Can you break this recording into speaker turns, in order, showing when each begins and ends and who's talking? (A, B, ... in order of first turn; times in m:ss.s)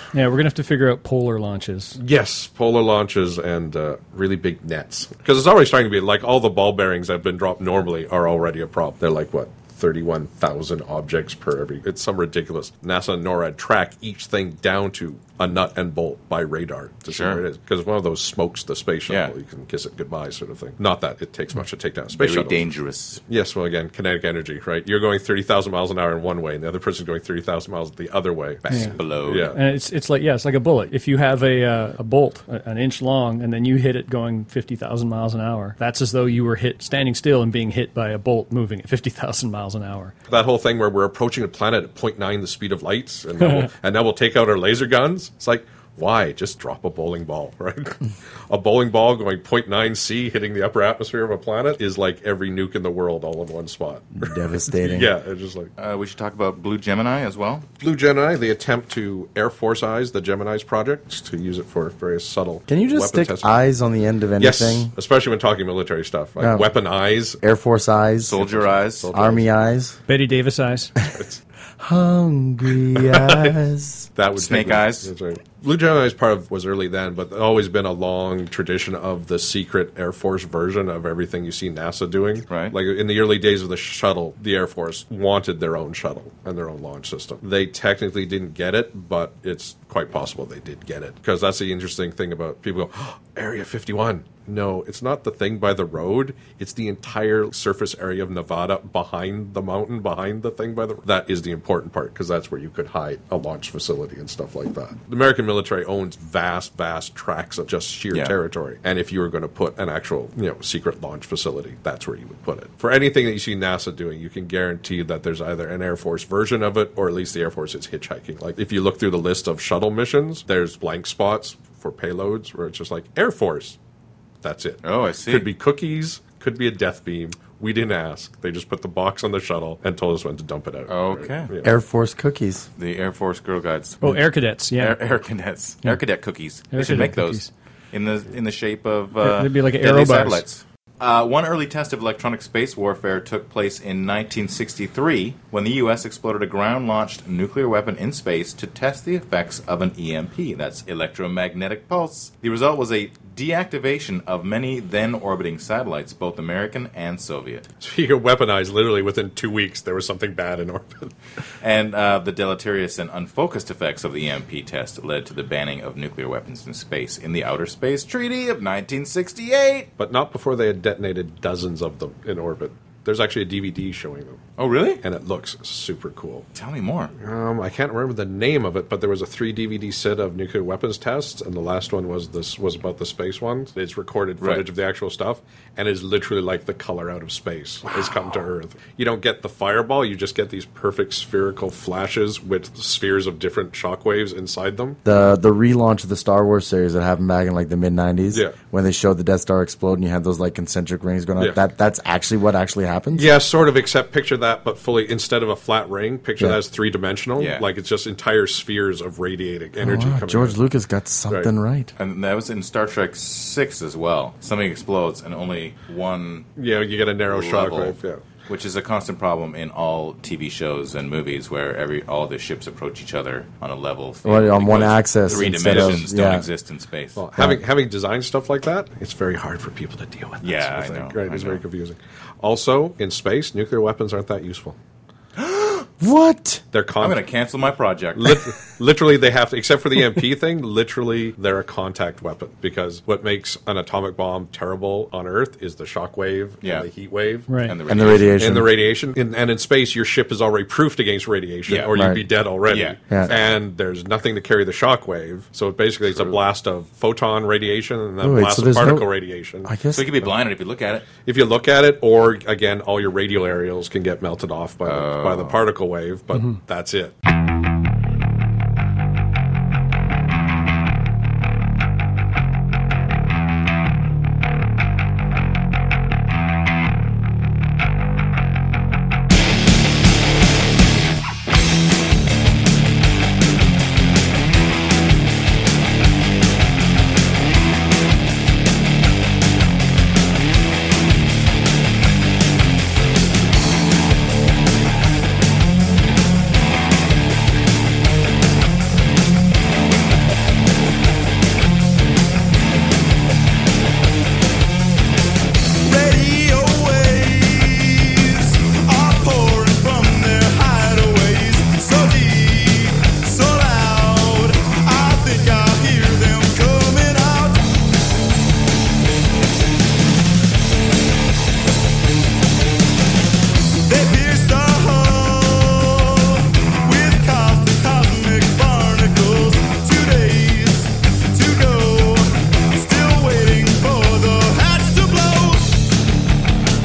0:00.1-0:02.0 A
0:02.0-0:22.7 B
0:17.1-0:17.4 C
0:19.1-0:19.3 C
0:22.1-0:23.2 C
0:23.3-0:29.6 B
0:28.7-0:29.0 A
0:28.7-0:29.6 C
0:29.5-0:40.1 A
0:40.3-0:55.7 B
0:43.4-0:43.7 A
0:54.2-0:55.1 D
0:55.8-0:57.6 C
0:57.8-1:03.6 B
1:02.7-1:04.9 D
1:04.4-1:07.4 B
1:06.4-1:06.7 D
1:07.4-1:08.4 D
1:08.2-1:09.1 C
1:08.3-1:09.5 B
1:09.1-1:10.0 D
1:10.1-1:10.9 A
1:11.1-1:11.4 B
1:11.8-1:14.1 D
1:13.0-1:13.5 B
1:14.2-2:03.8 B
1:14.4-1:15.1 C
1:22.5-1:22.8 C
2:04.4-2:11.7 B
2:04.8-2:05.5 C
2:10.9-2:11.5 C
2:11.6-2:12.7 D
2:12.8-2:14.2 C
2:14.0-2:15.0 A
2:14.8-2:37.7 C
2:16.7-2:17.5 A
2:19.2-2:20.4 A
2:37.8-2:41.1 B
2:41.6-2:49.9 C
2:50.0-2:54.4 B
2:54.6-2:55.0 C
2:55.0-2:56.5 B
2:56.6-2:57.1 C
2:57.2-3:15.0 B
3:04.4-3:04.6 C
3:15.0-3:23.3 D
3:18.3-3:18.6 B
3:23.2-3:30.6 B
3:27.4-3:27.6 C
3:29.8-3:31.9 D
3:32.0-3:36.5 C
3:36.6-3:38.2 B
3:37.3-3:47.2 C
3:44.2-3:46.5 D
3:45.4-3:46.0 B
3:47.2-3:54.8 B
3:50.4-3:51.6 C
3:55.4-3:55.9 C
3:56.0-3:56.6 D
3:56.7-3:57.3 B
3:57.0-3:58.4 C
3:58.2-4:07.5 B
4:06.6-4:06.9 C
4:07.5-4:07.8 A
4:07.6-4:08.4 C
4:07.9-4:08.7 D
4:08.4-4:19.7 B
4:11.7-4:12.0 C
4:11.9-4:12.2 D
4:12.7-4:13.4 C
4:18.2-4:19.1 D
4:19.6-4:20.1 D
4:19.9-4:21.1 C
4:21.2-4:27.1 B
4:24.8-4:25.6 C
5:05.8-5:17.7 E
5:23.8-5:35.8 E